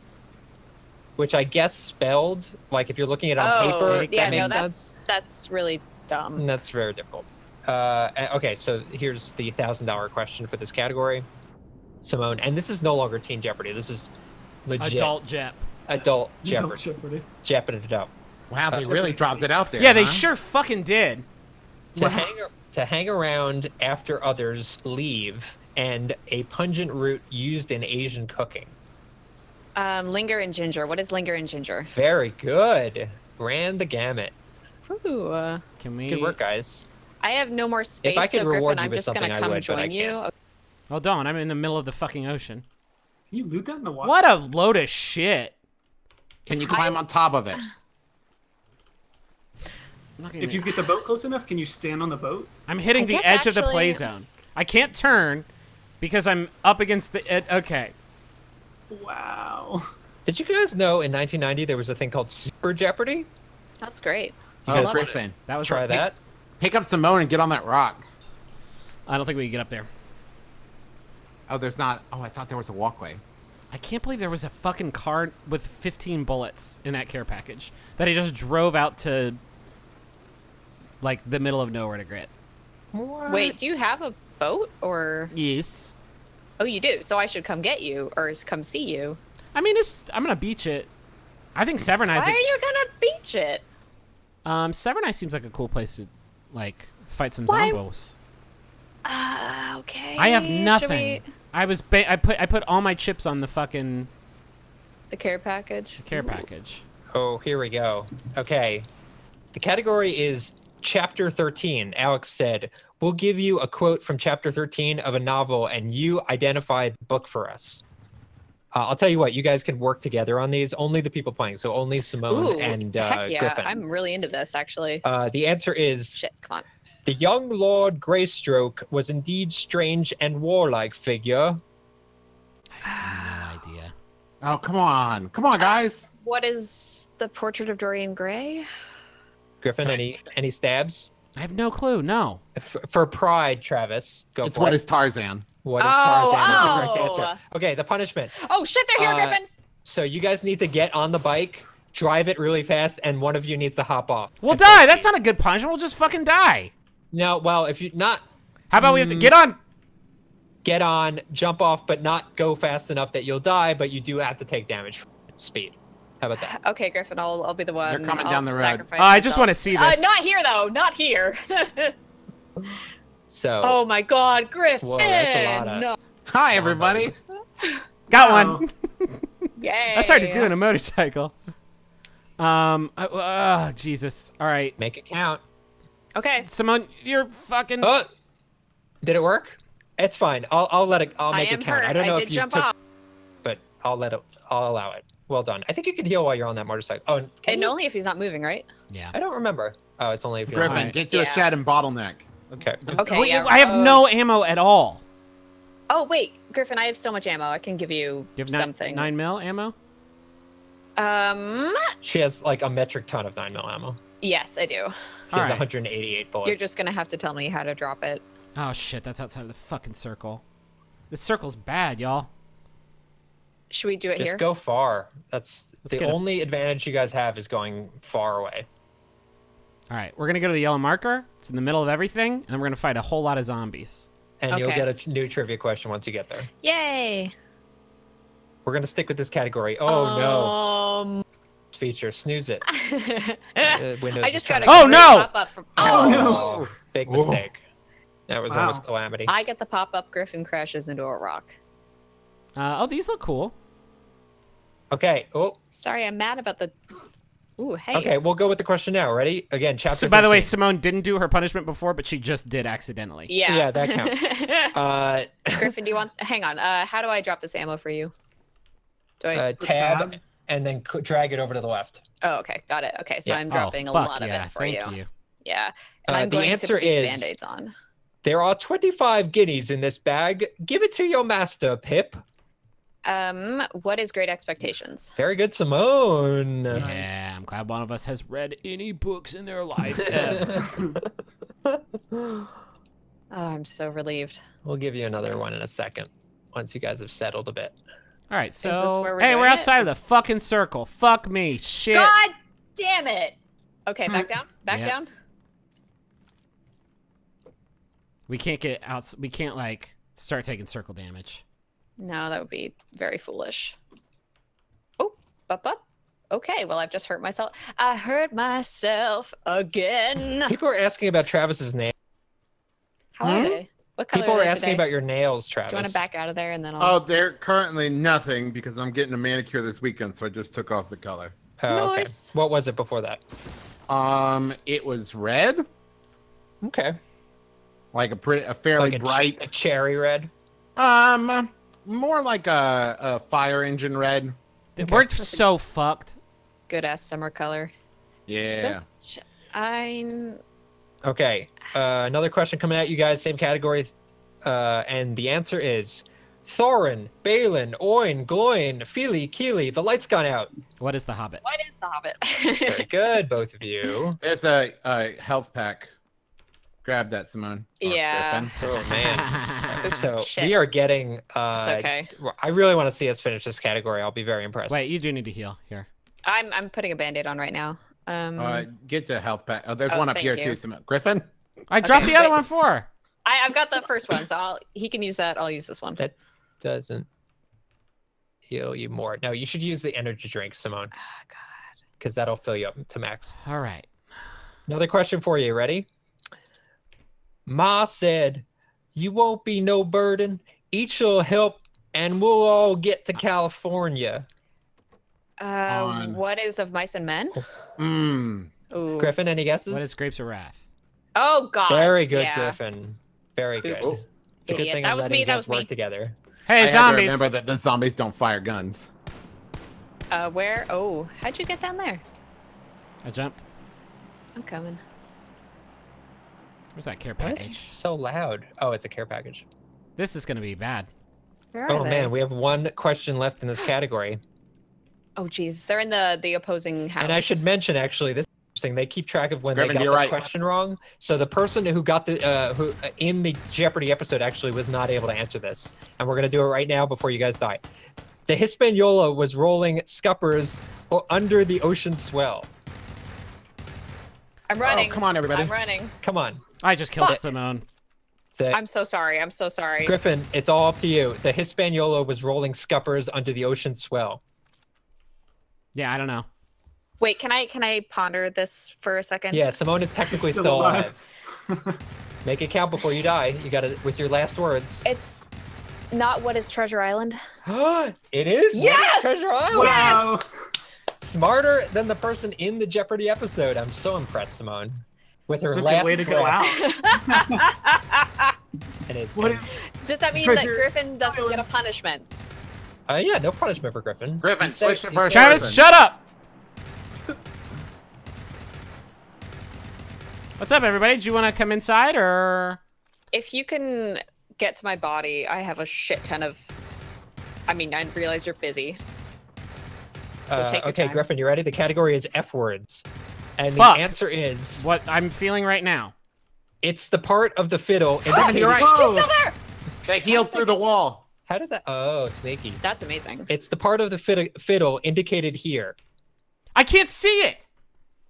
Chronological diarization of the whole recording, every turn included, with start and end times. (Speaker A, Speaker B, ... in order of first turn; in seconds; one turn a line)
Speaker A: 1.2-4.8
Speaker B: 3.4-6.5
Speaker C: 3.8-4.6
Speaker A: 6.3-11.2
Speaker A: 12.0-14.1
Speaker A: 14.6-15.1
Speaker C: 14.8-15.7
Speaker A: 15.9-16.8
Speaker D: 16.4-17.2
Speaker A: 17.4-18.1
Speaker E: 18.5-20.2
Speaker D: 18.7-19.5
Speaker C: 19.8-21.2
Speaker D: 21.9-22.3
Speaker A: 21.9-28.7
Speaker B: 29.8-31.9
Speaker A: 31.9-34.3
Speaker B: 34.9-35.6
Speaker C: 35.8-36.4
Speaker A: 36.1-36.8
Speaker B: 37.2-40.3
Speaker A: 38.0-40.2
Speaker C: 40.9-42.6
Speaker D: 43.3-44.1
Speaker C: 44.0-45.5
Speaker E: 46.5-47.6
Speaker B: 46.5-47.0
Speaker C: 50.2-50.9
Speaker D: 50.4-52.5
Speaker C: 52.7-55.4
Speaker B: 53.0-54.0
Speaker C: 56.0-57.9
Speaker D: 58.9-59.9
Speaker A: 60.2-63.3
Speaker B: 63.8-65.1
Speaker E: 64.7-65.3
Speaker A: 64.7-66.1
Speaker C: 65.5-66.1
Speaker E: 66.6-68.0
Speaker C: 69.1-69.9
Speaker E: 71.5-73.2
Speaker C: 73.7-79.4
Speaker C: 81.0-82.3
Speaker A: 82.9-83.6
Speaker B: 83.3-85.3
Speaker C: 85.3-85.9
Speaker B: 86.6-89.2
Speaker C: 89.5-90.9
Speaker C: 91.5-92.4
Speaker B: 92.1-93.6
Speaker C: 94.4-98.1
Speaker B: 97.5-97.8
Speaker B: 99.0-101.2
Speaker C: 100.2-104.1
Speaker B: 105.1-106.0
Speaker C: 106.0-106.8
Speaker A: 107.1-108.8
Speaker A: 109.5-117.8
Speaker A: 118.7-123.8
Speaker B: 122.3-125.0
Speaker A: 125.0-126.2
Speaker B: 126.2-126.7
Speaker A: 127.0-131.6
Speaker C: 132.8-133.9
Speaker B: 132.8-133.5
Speaker E: 134.4-136.1
Speaker B: 135.6-138.7
Speaker A: 139.6-141.1
Speaker C: 141.3-142.4
Speaker A: 142.6-144.8
Speaker E: 144.4-145.4
Speaker A: 145.6-148.3
Speaker B: 145.8-147.4
Speaker B: 148.3-149.4
Speaker A: 148.9-155.1
Speaker C: 154.4-156.7
Speaker A: 157.1-158.2
Speaker C: 158.7-159.6
Speaker A: 158.8-159.3
Speaker A: 160.6-166.5
Speaker B: 166.5-171.9
Speaker E: 167.8-168.8
Speaker C: 169.0-170.2
Speaker A: 173.3-173.8
Speaker B: 173.6-175.9
Speaker A: 174.8-175.9
Speaker E: 176.3-177.1
Speaker A: 176.5-177.2
Speaker B: 177.6-177.8
Speaker C: 178.1-181.3
Speaker D: 178.1-178.6
Speaker B: 179.6-180.5
Speaker C: 182.4-184.7
Speaker A: 184.8-185.4
Speaker B: 186.1-186.5
Speaker C: 186.2-187.9
Speaker A: 187.8-188.1
Speaker A: 189.0-192.7
Speaker B: 191.3-192.7
Speaker A: 193.4-197.7
Speaker B: 197.5-198.7
Speaker A: 199.1-200.9
Speaker E: 200.5-203.0
Speaker C: 200.7-201.0
Speaker B: 201.1-201.4
Speaker A: 202.6-203.0
Speaker C: 202.9-205.0
Speaker B: 203.0-204.0
Speaker B: 205.9-209.1
Speaker C: 208.4-209.7
Speaker B: 211.0-211.9
Speaker A: 212.0-214.0
Speaker B: 214.2-214.9
Speaker C: 215.3-215.6
Speaker A: 215.3-216.7
Speaker B: 216.4-218.2
Speaker C: 218.5-220.4
Speaker C: 221.1-222.3
Speaker B: 223.7-224.4
Speaker A: 224.2-228.7
Speaker C: 225.9-226.2
Speaker C: 229.9-234.1
Speaker A: 234.4-236.5
Speaker B: 234.5-234.9
Speaker B: 236.6-237.3
Speaker A: 238.7-240.6
Speaker B: 239.9-241.2
Speaker A: 241.7-242.6
Speaker B: 242.7-246.6
Speaker A: 243.6-245.2
Speaker C: 244.7-245.3
Speaker A: 245.8-247.6
Speaker D: 245.8-246.6
Speaker D: 247.1-247.4
Speaker A: 248.3-249.3
Speaker D: 248.5-248.8
Speaker B: 249.3-251.6
Speaker C: 252.6-253.5
Speaker A: 254.9-255.6
Speaker B: 255.7-256.7
Speaker B: 257.6-258.1
Speaker A: 257.9-260.5
Speaker C: 259.9-263.3
Speaker B: 263.3-264.8
Speaker A: 263.5-265.7
Speaker B: 265.6-268.1
Speaker B: 269.2-269.5
Speaker A: 269.3-272.0
Speaker D: 269.6-270.2
Speaker B: 272.2-277.7
Speaker C: 273.5-275.1
Speaker A: 276.1-277.4
Speaker A: 278.2-282.2
Speaker B: 283.0-285.2
Speaker A: 285.2-286.9
Speaker C: 286.7-290.7
Speaker E: 286.8-287.2
Speaker A: 290.1-291.1
Speaker D: 290.5-290.9
Speaker A: 292.1-292.5
Speaker B: 293.3-294.4
Speaker A: 294.6-297.7
Speaker C: 298.3-302.1
Speaker B: 298.6-299.8
Speaker B: 301.9-303.3
Speaker B: 303.9-305.1
Speaker C: 304.7-304.9
Speaker C: 308.3-311.4
Speaker B: 312.0-313.8
Speaker B: 315.0-320.6
Speaker A: 320.4-321.9
Speaker B: 323.1-324.8
Speaker E: 323.2-323.6
Speaker A: 324.1-326.0
Speaker B: 325.7-326.9
Speaker E: 326.8-331.3
Speaker A: 331.6-333.2
Speaker B: 331.7-332.3
Speaker E: 333.9-335.6
Speaker A: 336.6-337.0
Speaker E: 337.9-339.5
Speaker A: 338.8-340.3
Speaker E: 340.8-344.4
Speaker C: 344.8-346.2
Speaker A: 344.8-345.1
Speaker B: 344.9-345.4
Speaker B: 346.7-347.7
Speaker E: 348.3-348.8
Speaker B: 348.6-350.4
Speaker A: 351.0-353.9
Speaker A: 354.4-360.5
Speaker C: 360.8-361.4
Speaker B: 361.4-362.9
Speaker A: 362.7-364.2
Speaker E: 364.2-365.9
Speaker E: 366.8-368.5
Speaker B: 367.8-368.6
Speaker C: 368.6-370.1
Speaker A: 368.6-374.8
Speaker B: 369.8-370.6
Speaker B: 371.5-372.1
Speaker C: 374.7-375.9
Speaker B: 376.2-378.6
Speaker E: 378.4-381.3
Speaker B: 379.9-380.6
Speaker C: 381.7-382.9
Speaker B: 381.8-382.4
Speaker B: 383.2-386.0
Speaker A: 386.0-387.1
Speaker A: 388.5-390.9
Speaker B: 391.2-391.5
Speaker A: 392.0-393.3
Speaker C: 393.4-393.9
Speaker A: 394.7-395.9
Speaker A: 397.4-404.2
Speaker B: 405.4-407.4
Speaker E: 405.7-406.2
Speaker E: 407.8-408.5
Speaker B: 408.7-409.1
Speaker A: 409.0-409.9
Speaker C: 409.7-410.6
Speaker B: 411.1-412.6
Speaker A: 411.7-416.1
Speaker B: 413.6-415.7
Speaker C: 416.5-417.2
Speaker E: 416.6-418.9
Speaker B: 420.1-422.0
Speaker C: 423.0-423.4
Speaker B: 424.4-424.8
Speaker C: 426.7-427.7
Speaker A: 427.2-429.4
Speaker C: 430.0-430.9
Speaker B: 431.5-432.1
Speaker A: 431.7-434.2
Speaker B: 435.2-437.4
Speaker A: 437.0-447.6
Speaker E: 439.5-440.2
Speaker A: 448.3-452.5
Speaker B: 454.5-455.9
Speaker E: 454.6-455.5
Speaker A: 456.0-456.4
Speaker C: 456.6-457.6
Speaker B: 458.5-459.9
Speaker A: 459.8-464.2
Speaker C: 465.7-466.3
Speaker B: 467.0-469.5
Speaker A: 469.3-471.0
Speaker D: 470.1-471.8
Speaker A: 472.2-474.9
Speaker B: 474.8-475.3
Speaker B: 475.9-477.2
Speaker A: 477.4-480.1
Speaker B: 478.5-480.1
Speaker D: 479.5-480.3
Speaker A: 481.0-486.4
Speaker D: 485.5-487.4
Speaker B: 486.5-488.4
Speaker A: 488.9-489.6
Speaker D: 489.1-489.6
Speaker B: 489.6-492.1
Speaker D: 490.1-491.4
Speaker A: 492.9-495.5
Speaker E: 494.2-495.6
Speaker C: 495.1-496.0
Speaker C: 500.4-502.6
Speaker B: 503.1-506.4
Speaker B: 507.5-508.8
Speaker B: 510.3-511.0
Speaker A: 510.3-512.9
Speaker A: 513.4-514.6
Speaker C: 513.5-513.9
Speaker C: 514.6-515.9
Speaker A: 516.6-518.6
Speaker E: 518.1-519.1
Speaker B: 518.1-519.3
Speaker D: 518.4-519.1
Speaker E: 519.9-521.0
Speaker A: 521.3-522.6
Speaker B: 522.6-523.3
Speaker A: 523.3-525.8
Speaker C: 526.5-527.5